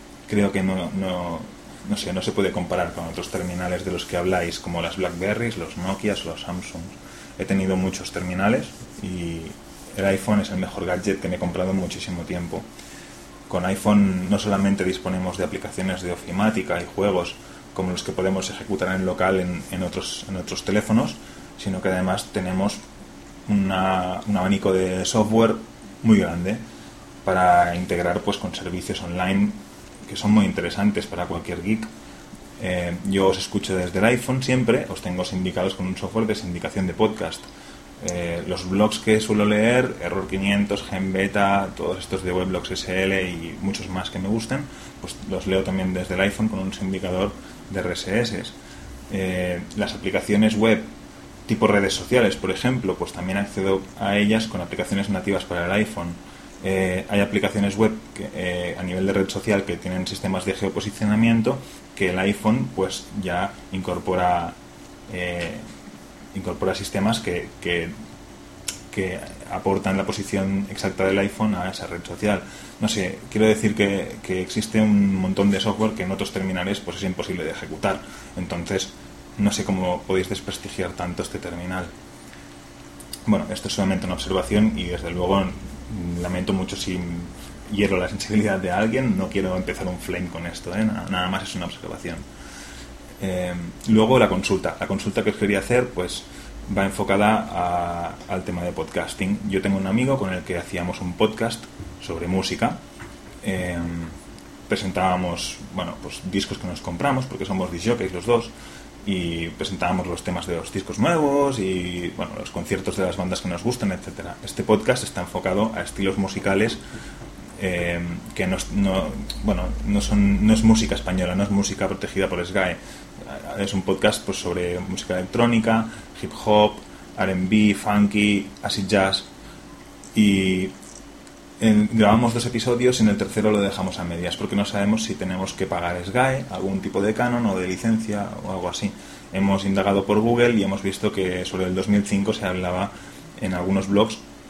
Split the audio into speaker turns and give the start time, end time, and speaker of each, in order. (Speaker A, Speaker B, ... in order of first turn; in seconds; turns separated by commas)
Speaker A: 0.3-12.6, Speaker A: 13.5-22.8, Speaker A: 23.5-26.6, Speaker A: 27.2-31.9, Speaker A: 32.6-37.5, Speaker A: 38.0-48.5, Speaker A: 49.1-50.9, Speaker A: 51.5-64.6, Speaker A: 65.1-65.6, Speaker A: 66.3-67.9, Speaker A: 68.9-81.9, Speaker A: 83.2-92.2, Speaker A: 93.2-102.8, Speaker A: 103.4-104.1, Speaker A: 104.7-108.5, Speaker A: 109.0-116.8, Speaker A: 117.6-129.3, Speaker A: 130.1-130.7, Speaker A: 131.6-144.2